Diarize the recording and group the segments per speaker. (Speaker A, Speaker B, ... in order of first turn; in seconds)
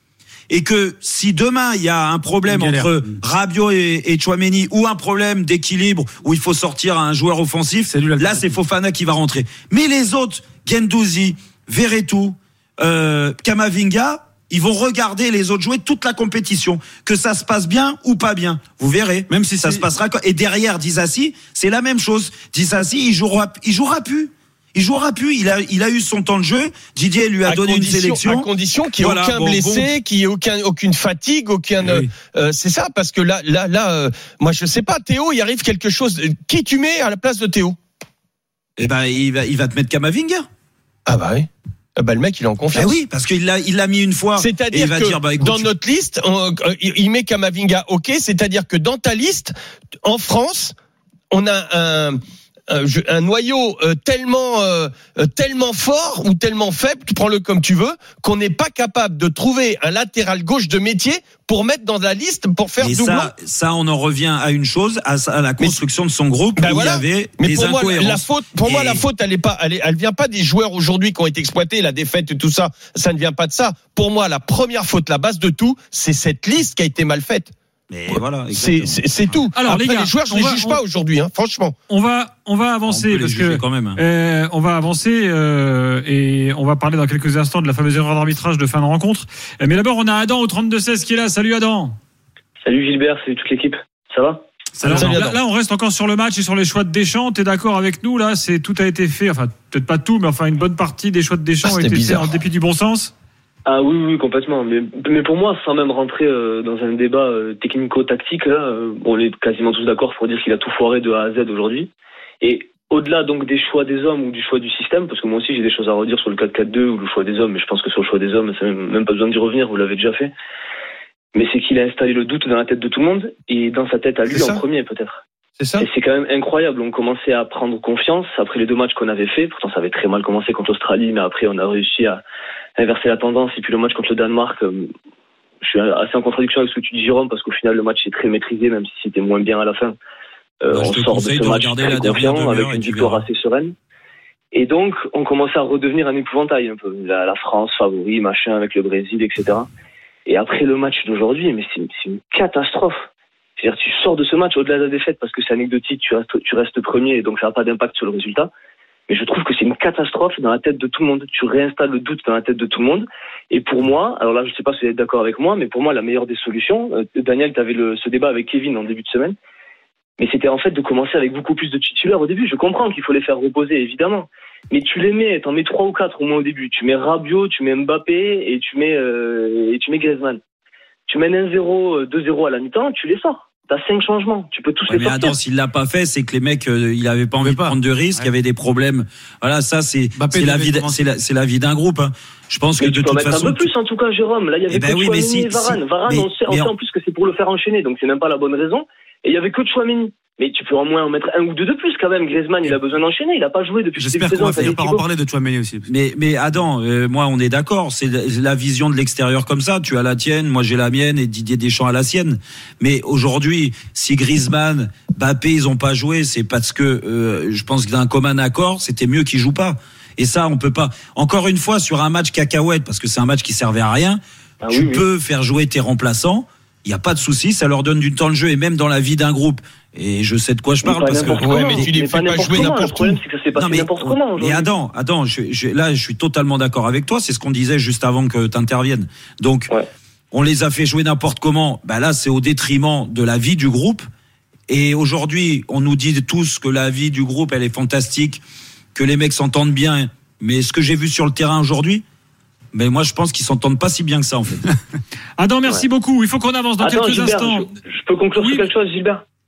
Speaker A: 0.5-29.9, 38.8-40.5, 42.7-45.7, 62.8-69.0, 77.9-79.4, 82.8-84.0, 140.7-143.2, 184.9-193.7, 194.7-196.7, 205.9-231.9, 233.6-239.7, 240.3-244.0, 244.7-248.4, 248.9-252.0, 252.7-254.6
Speaker B: 2.4-3.0, 7.9-8.5, 19.3-19.8, 94.8-95.3, 187.4-188.3, 190.2-191.0, 203.9-205.9
Speaker C: 27.4-37.8, 41.0-43.0, 44.4-49.5, 50.0-50.7, 51.3-52.2, 52.7-63.3, 66.5-77.5, 78.1-81.7, 95.0-95.3, 101.6-102.3, 124.2-124.6, 125.6-125.9, 231.4-233.2
Speaker D: 79.5-80.8, 81.9-92.0, 94.8-103.1, 255.4-257.8, 258.4-258.7
Speaker E: 92.6-94.4, 103.7-120.3, 121.3-125.2, 125.8-132.2, 132.8-134.8, 135.6-139.9, 140.6-143.7, 144.5-149.7, 150.2-153.0, 153.6-158.5, 159.1-169.3, 170.2-180.4, 181.1-185.3, 192.8-205.0, 224.6-225.0, 230.8-234.7, 256.8-259.2